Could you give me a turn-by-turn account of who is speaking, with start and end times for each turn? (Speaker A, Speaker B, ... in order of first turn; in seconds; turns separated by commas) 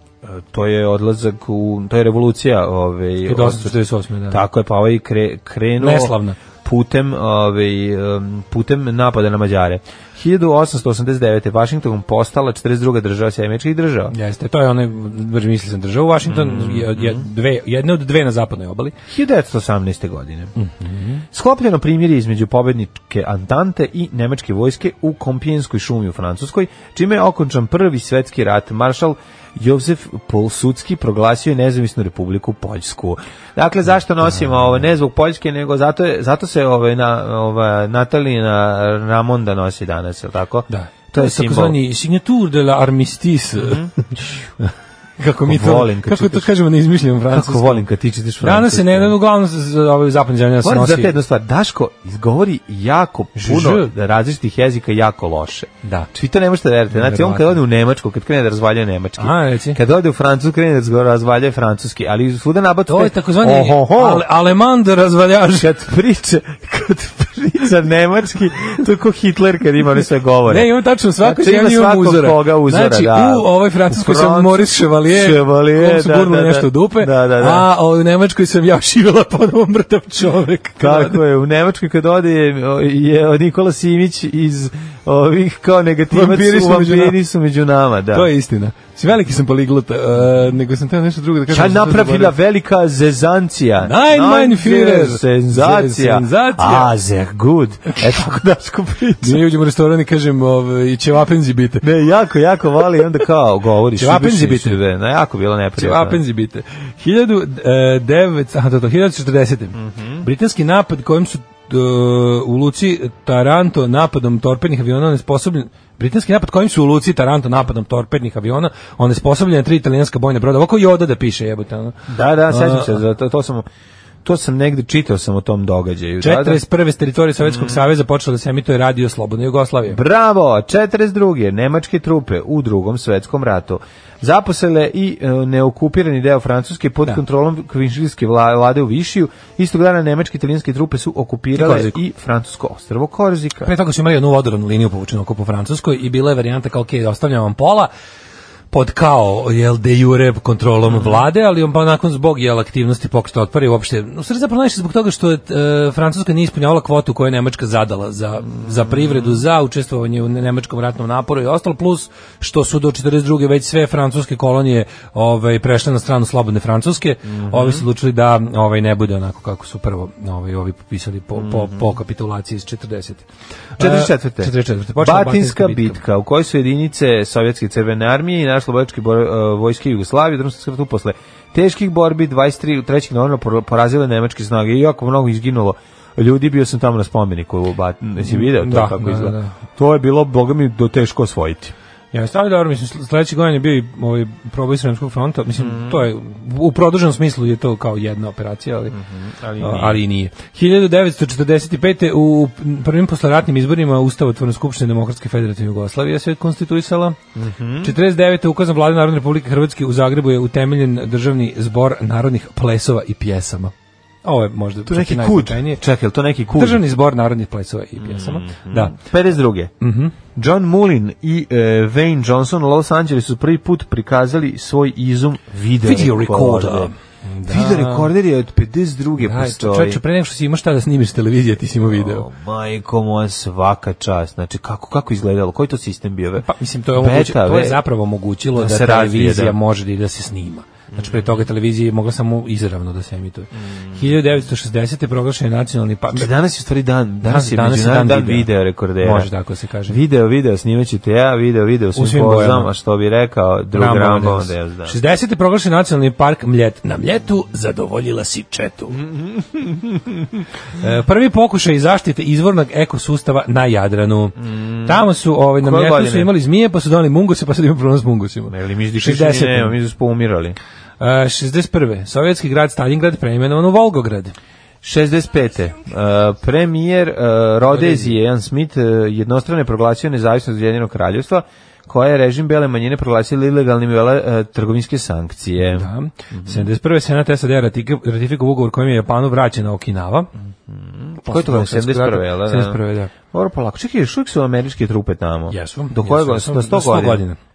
Speaker A: 0.2-3.8, Speaker B: 3.2-4.4, Speaker A: 4.3-14.1, Speaker B: 5.8-6.4, Speaker B: 14.1-18.9, Speaker A: 16.2-17.2, Speaker A: 19.1-20.5, Speaker B: 20.6-21.2, Speaker A: 21.3-41.8, Speaker B: 40.7-47.9, Speaker A: 43.6-44.3, Speaker A: 45.4-46.5, Speaker A: 47.3-49.1, Speaker B: 48.4-51.2, Speaker A: 50.6-64.3, Speaker B: 53.4-53.9, Speaker B: 55.8-56.1, Speaker B: 56.9-57.6, Speaker B: 59.2-59.8, Speaker B: 62.9-65.7, Speaker A: 65.5-70.7, Speaker B: 70.5-81.2, Speaker A: 71.2-77.7, Speaker A: 80.8-88.3, Speaker B: 86.1-87.2, Speaker B: 88.1-92.3, Speaker A: 91.5-99.4, Speaker B: 93.8-96.9, Speaker B: 99.2-101.8, Speaker A: 101.8-106.2, Speaker B: 104.0-104.8, Speaker B: 105.8-122.0, Speaker A: 109.7-110.2, Speaker A: 122.1-123.7, Speaker B: 122.5-122.9, Speaker A: 124.2-126.6, Speaker B: 126.2-130.0, Speaker A: 127.4-127.8, Speaker A: 129.9-143.7, Speaker B: 141.5-142.0, Speaker B: 143.6-147.9, Speaker B: 148.7-173.2, Speaker A: 150.9-151.2, Speaker A: 158.6-159.3, Speaker A: 167.4-167.8, Speaker A: 171.4-171.8, Speaker B: 173.8-176.0, Speaker A: 173.8-191.7, Speaker B: 188.2-189.5, Speaker B: 192.1-199.0, Speaker A: 195.6-196.0, Speaker A: 198.9-200.0, Speaker B: 199.6-207.2, Speaker A: 207.3-207.9, Speaker B: 207.8-213.7, Speaker B: 214.2-215.8, Speaker A: 214.9-216.8, Speaker B: 216.6-219.0, Speaker A: 218.0-219.7, Speaker B: 219.8-220.2, Speaker A: 220.3-226.9, Speaker B: 225.8-228.1, Speaker A: 227.4-230.0, Speaker B: 229.2-232.3, Speaker A: 231.9-237.8, Speaker B: 236.4-246.3, Speaker A: 238.5-239.6, Speaker A: 240.9-241.2, Speaker A: 243.6-244.1, Speaker A: 246.1-249.3, Speaker B: 247.2-250.0, Speaker A: 249.9-255.0, Speaker B: 251.9-252.7, Speaker B: 253.7-259.0, Speaker A: 258.9-260.4, Speaker B: 260.8-269.7, Speaker A: 264.4-265.0, Speaker A: 265.6-266.3, Speaker A: 268.5-270.6, Speaker B: 271.0-274.3, Speaker A: 274.8-286.7, Speaker B: 277.7-278.2, Speaker B: 285.6-290.3, Speaker A: 290.6-292.8, Speaker B: 291.2-293.1, Speaker A: 293.3-297.2, Speaker B: 295.5-297.4